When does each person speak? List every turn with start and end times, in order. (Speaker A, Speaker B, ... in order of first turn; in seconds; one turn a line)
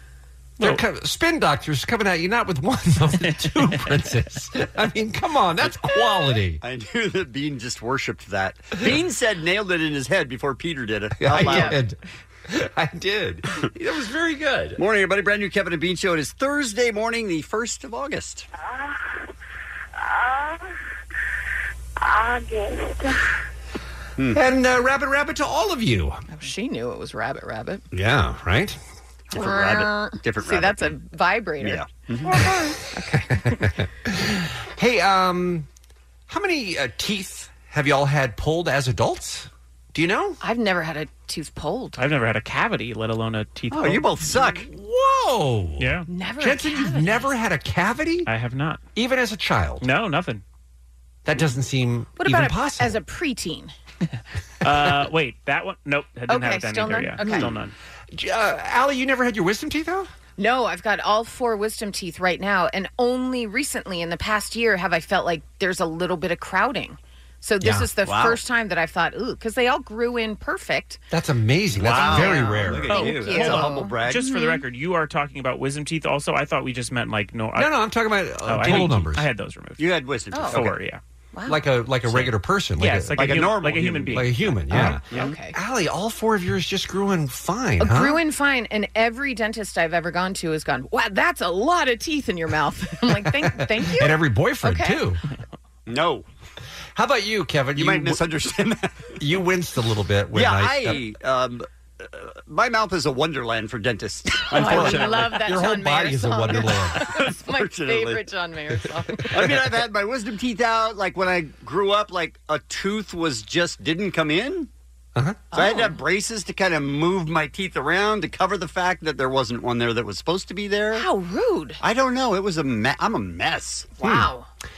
Speaker A: 0.6-6.6
Speaker B: 6.6-11.8
Speaker A: 11.2-12.0
Speaker C: 11.5-11.8
Speaker A: 12.5-14.8
Speaker B: 14.8-18.5
Speaker D: 18.6-19.3
Speaker D: 20.0-20.8
Speaker D: 22.0-23.4
Speaker A: 24.3-26.2
Speaker C: 26.3-27.8
Speaker A: 27.9-28.8
Speaker B: 29.3-31.0
Speaker C: 29.3-33.1
Speaker B: 31.6-32.5
Speaker A: 33.1-35.7
Speaker A: 36.3-40.4
Speaker C: 40.4-42.0
Speaker E: 42.0-44.1
Speaker B: 43.7-44.7
Speaker A: 44.4-48.3
Speaker E: 45.8-46.1
Speaker C: 46.1-47.3
Speaker E: 48.3-48.8
Speaker A: 49.0-49.8
Speaker E: 49.8-50.4
Speaker A: 51.2-53.0
Speaker C: 52.2-53.7
Speaker E: 54.6-57.7
Speaker C: 56.3-57.5
Speaker B: 57.2-57.6
Speaker A: 58.1-60.1
Speaker C: 60.4-71.0
Speaker A: 67.6-67.9
Speaker B: 68.0-68.4
Speaker A: 71.1-73.2
Speaker B: 71.7-74.2
Speaker C: 72.0-74.6
Speaker E: 72.9-77.8
Speaker A: 77.5-79.3
Speaker E: 78.4-81.0
Speaker B: 79.8-80.8
Speaker C: 80.3-80.6
Speaker C: 81.3-81.6
Speaker A: 81.5-83.5
Speaker E: 82.8-85.3
Speaker B: 83.2-84.3
Speaker A: 84.1-85.0
Speaker C: 85.1-85.5
Speaker A: 85.5-88.2
Speaker C: 87.8-95.0
Speaker A: 93.2-95.2
Speaker B: 95.9-96.2
Speaker A: 97.0-98.2
Speaker B: 97.8-99.1
Speaker A: 99.2-101.0
Speaker B: 100.3-105.6
Speaker C: 104.5-109.3
Speaker A: 104.5-107.1
Speaker B: 107.1-108.2
Speaker B: 109.3-114.7
Speaker A: 109.3-109.6
Speaker A: 115.2-115.5
Speaker C: 115.5-116.0
Speaker B: 115.5-121.1
Speaker C: 121.0-121.8
Speaker B: 121.8-123.9
Speaker C: 124.0-124.5
Speaker A: 124.0-124.3